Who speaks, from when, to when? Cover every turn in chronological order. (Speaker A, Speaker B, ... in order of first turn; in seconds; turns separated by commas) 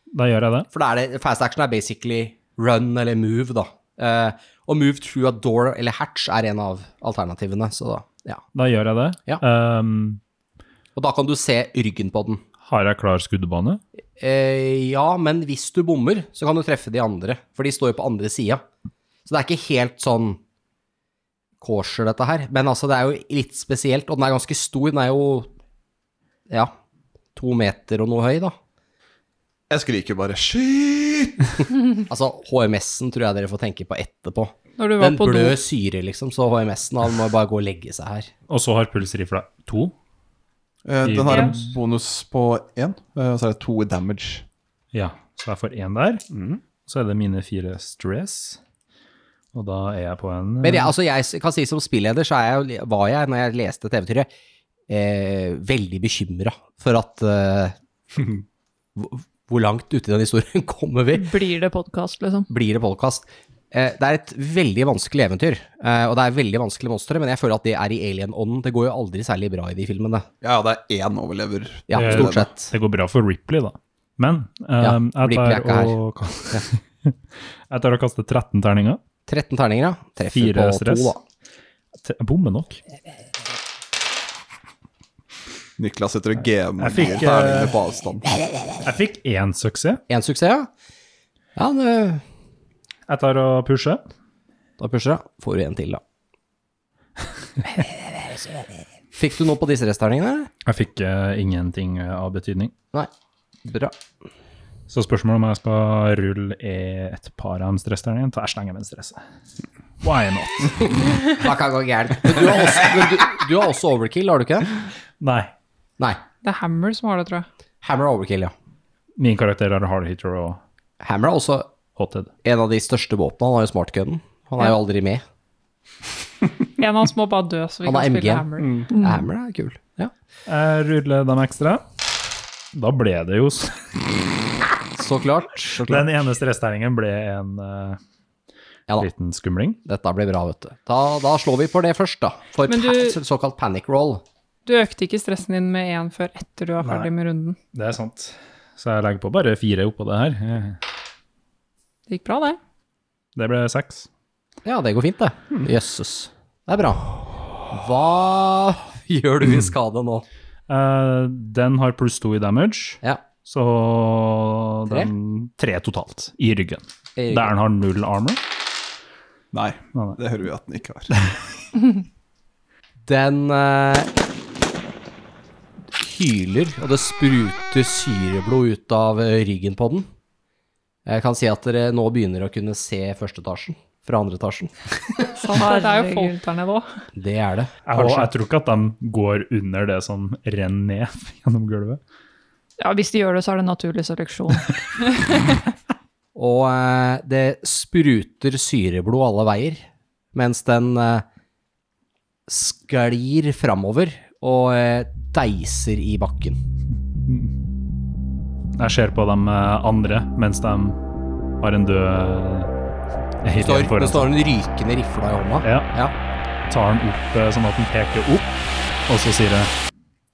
Speaker A: 0.1-0.7, Speaker B: 0.7-8.4, Speaker A: 8.5-10.2, Speaker B: 10.9-12.4, Speaker A: 12.6-13.8, Speaker B: 14.2-18.6, Speaker B: 19.2-20.4, Speaker B: 21.6-25.5, Speaker B: 27.4-28.6, Speaker C: 29.7-31.6, Speaker B: 32.1-38.3, Speaker D: 34.8-35.6, Speaker A: 38.5-39.9, Speaker C: 40.9-44.4, Speaker A: 41.0-41.8, Speaker D: 41.2-41.5, Speaker A: 44.9-46.2, Speaker C: 46.3-46.6, Speaker A: 46.9-48.6, Speaker A: 49.5-50.9, Speaker B: 50.6-54.3, Speaker B: 54.9-57.7, Speaker B: 58.9-61.4, Speaker E: 61.1-62.5, Speaker B: 62.5-70.2, Speaker C: 70.4-72.5, Speaker B: 71.9-72.7, Speaker A: 71.9-77.2, Speaker B: 74.8-76.0, Speaker A: 77.7-79.0, Speaker B: 79.3-81.2, Speaker A: 80.3-81.1, Speaker A: 82.0-82.8, Speaker C: 85.8-88.3, Speaker A: 86.8-87.8, Speaker A: 88.8-90.0, Speaker B: 90.1-90.7, Speaker B: 91.5-92.2, Speaker A: 93.1-94.0, Speaker B: 94.8-96.0, Speaker B: 99.1-100.5, Speaker A: 100.7-102.7, Speaker B: 103.6-104.0, Speaker A: 104.9-109.2, Speaker A: 110.0-110.9, Speaker B: 111.2-114.8, Speaker A: 115.2-115.5, Speaker D: 116.4-117.5, Speaker B: 117.8-118.5, Speaker A: 119.2-120.6, Speaker B: 121.0-121.7, Speaker A: 122.0-122.3, Speaker B: 122.4-125.2, Speaker D: 126.8-128.8, Speaker B: 127.8-130.1, Speaker E: 128.9-129.3, Speaker A: 130.5-131.8, Speaker A: 132.7-133.9, Speaker B: 135.0-136.1, Speaker A: 135.8-138.0, Speaker A: 139.0-139.8, Speaker B: 139.8-144.2, Speaker D: 142.7-143.2, Speaker D: 144.7-147.6, Speaker A: 147.7-150.8, Speaker D: 152.1-152.6, Speaker A: 153.3-154.1, Speaker B: 154.6-157.1, Speaker B: 157.7-160.2, Speaker A: 160.7-168.4, Speaker B: 164.9-165.1, Speaker B: 167.2-167.5, Speaker C: 169.5-171.1, Speaker A: 169.9-170.2, Speaker B: 173.0-174.1, Speaker B: 175.9-180.1, Speaker B: 181.1-185.3, Speaker D: 185.3-187.0, Speaker E: 185.5-186.4, Speaker B: 187.2-188.1, Speaker A: 187.8-192.0, Speaker E: 192.8-194.8, Speaker B: 196.3-201.2, Speaker B: 202.5-206.6, Speaker A: 208.8-211.0, Speaker A: 211.6-212.7, Speaker A: 213.4-214.3, Speaker B: 213.6-216.1, Speaker A: 215.6-215.9, Speaker A: 216.7-219.7